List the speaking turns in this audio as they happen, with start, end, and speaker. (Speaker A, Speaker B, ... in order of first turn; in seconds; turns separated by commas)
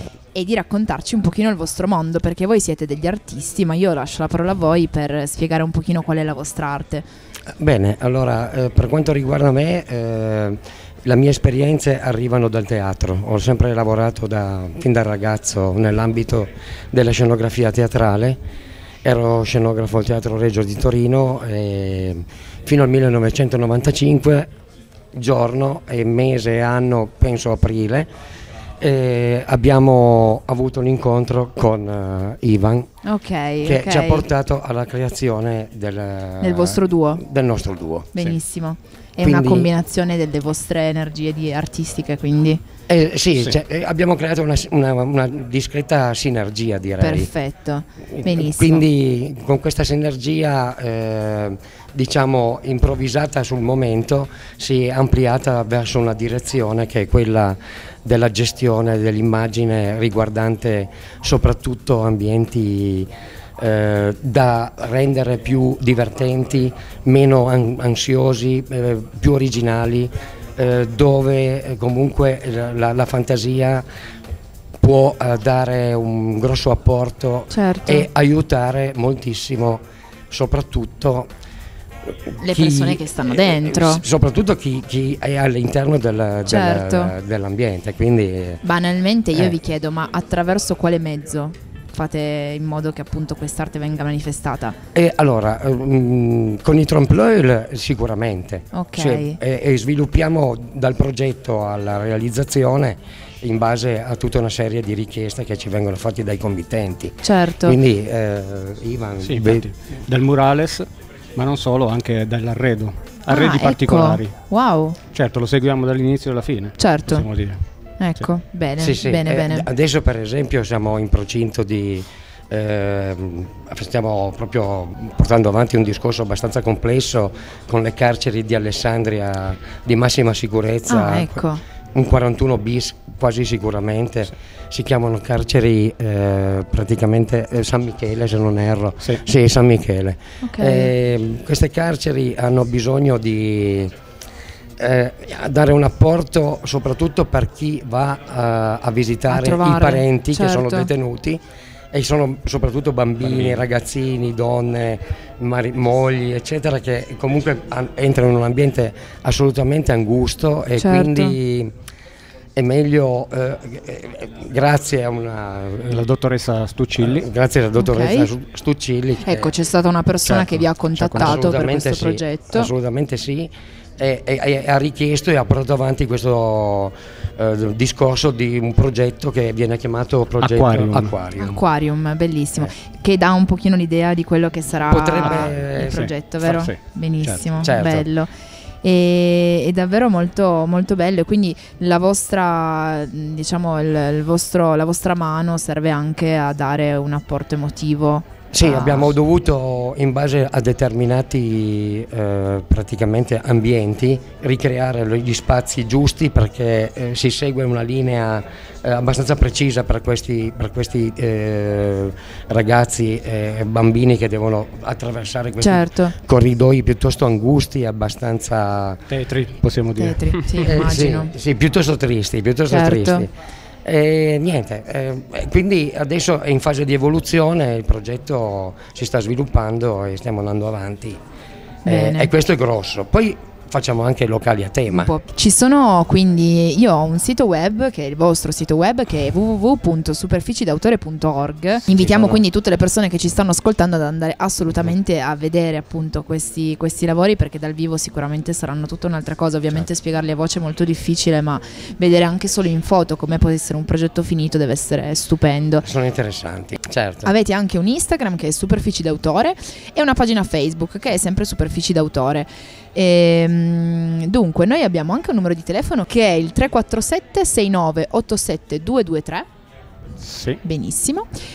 Speaker A: 0.3-7.0, Speaker B: 7.6-18.4, Speaker B: 19.0-24.5, Speaker B: 25.1-28.1, Speaker B: 28.8-32.9, Speaker A: 33.0-34.3, Speaker B: 33.6-38.4, Speaker A: 36.4-37.2, Speaker A: 38.1-42.6, Speaker B: 39.2-39.7, Speaker B: 42.9-47.3, Speaker A: 47.0-48.9, Speaker B: 48.2-73.8, Speaker B: 74.8-81.3, Speaker A: 77.5-78.1, Speaker B: 82.3-88.6, Speaker A: 82.4-84.0, Speaker A: 86.5-87.2, Speaker A: 88.6-94.8, Speaker B: 94.9-109.7, Speaker A: 98.7-99.4, Speaker A: 107.2-107.8, Speaker C: 109.2-114.3, Speaker A: 113.3-115.0, Speaker C: 115.1-117.6, Speaker A: 116.8-117.3, Speaker A: 118.0-119.7, Speaker B: 118.8-143.9, Speaker A: 130.9-131.6, Speaker A: 140.4-140.9, Speaker B: 144.8-151.4, Speaker A: 149.3-150.9, Speaker B: 151.9-161.7, Speaker C: 153.2-153.6, Speaker A: 160.8-161.4, Speaker B: 162.6-166.0, Speaker C: 165.9-167.3, Speaker B: 167.0-169.5, Speaker A: 167.8-168.3, Speaker A: 169.2-172.7, Speaker C: 170.2-171.6, Speaker B: 171.2-181.6, Speaker C: 180.4-181.2, Speaker A: 181.4-188.3, Speaker B: 184.9-186.0, Speaker C: 185.8-187.4, Speaker B: 187.6-188.1, Speaker A: 188.8-199.2, Speaker B: 198.5-219.1, Speaker A: 215.6-216.1, Speaker C: 219.1-220.7, Speaker A: 220.0-221.3, Speaker B: 220.7-223.3, Speaker A: 222.7-223.2, Speaker B: 223.8-231.2, Speaker A: 231.8-232.3, Speaker B: 231.9-235.1, Speaker A: 234.9-255.9, Speaker B: 241.9-242.4, Speaker B: 255.8-257.3, Speaker A: 257.2-269.5, Speaker C: 270.2-270.6, Speaker A: 270.6-271.3